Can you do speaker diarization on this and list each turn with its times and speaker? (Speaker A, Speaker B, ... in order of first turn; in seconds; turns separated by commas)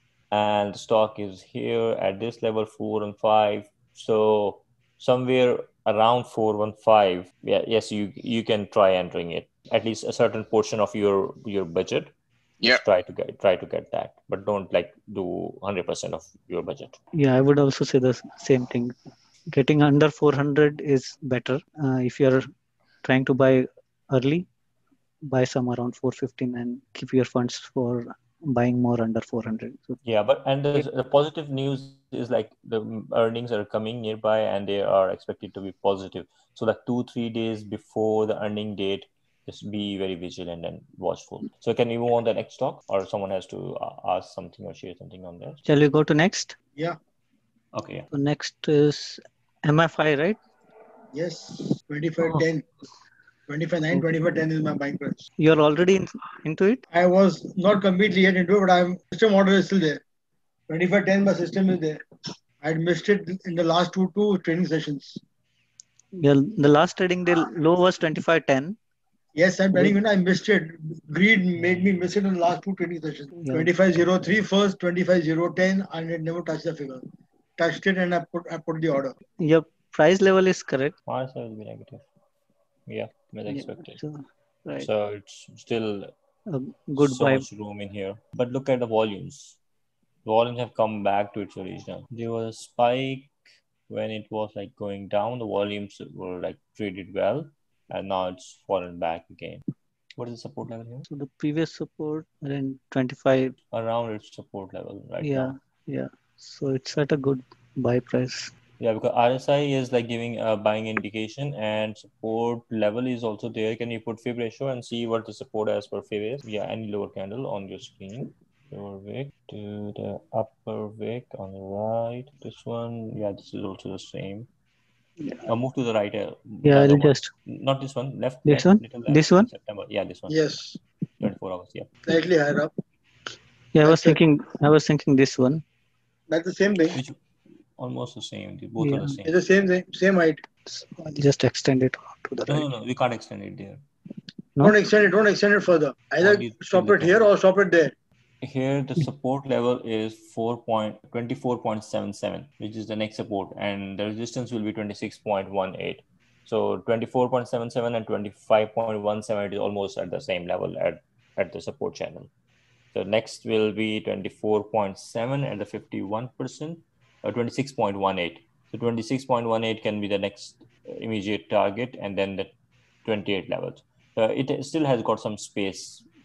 Speaker A: 0.3-17.0, Speaker B: 17.1-18.9, Speaker B: 19.5-22.5, Speaker B: 23.0-24.5, Speaker B: 25.2-30.0, Speaker A: 30.0-45.6, Speaker B: 45.7-46.5, Speaker A: 47.7-48.1, Speaker B: 48.1-50.4, Speaker C: 51.1-52.7, Speaker C: 53.5-55.2, Speaker B: 55.4-56.8, Speaker C: 56.9-60.0, Speaker C: 60.7-62.0, Speaker C: 62.6-65.2, Speaker B: 66.2-68.8, Speaker C: 69.3-77.1, Speaker B: 73.4-73.7, Speaker C: 77.6-79.2, Speaker B: 79.4-80.9, Speaker A: 81.1-82.0, Speaker A: 82.9-84.0, Speaker B: 83.5-84.9, Speaker A: 84.8-86.1, Speaker B: 86.5-87.5, Speaker A: 87.0-89.6, Speaker A: 90.2-93.3, Speaker A: 93.9-99.6, Speaker A: 100.2-101.1, Speaker B: 101.1-103.6, Speaker A: 103.7-105.5, Speaker B: 105.2-108.5, Speaker A: 108.8-124.5, Speaker A: 125.5-130.4, Speaker B: 126.6-127.3, Speaker B: 128.5-129.5, Speaker C: 130.3-130.8, Speaker A: 131.2-131.9, Speaker C: 132.1-132.7, Speaker B: 133.7-135.6, Speaker C: 133.8-134.2, Speaker C: 136.3-137.0, Speaker A: 136.9-137.2, Speaker A: 137.8-139.3, Speaker B: 138.8-139.2, Speaker C: 139.2-140.4, Speaker B: 140.7-142.7, Speaker A: 142.5-143.8, Speaker C: 144.6-147.9, Speaker A: 146.2-147.3, Speaker A: 148.4-162.3, Speaker A: 162.9-172.5, Speaker A: 173.1-176.1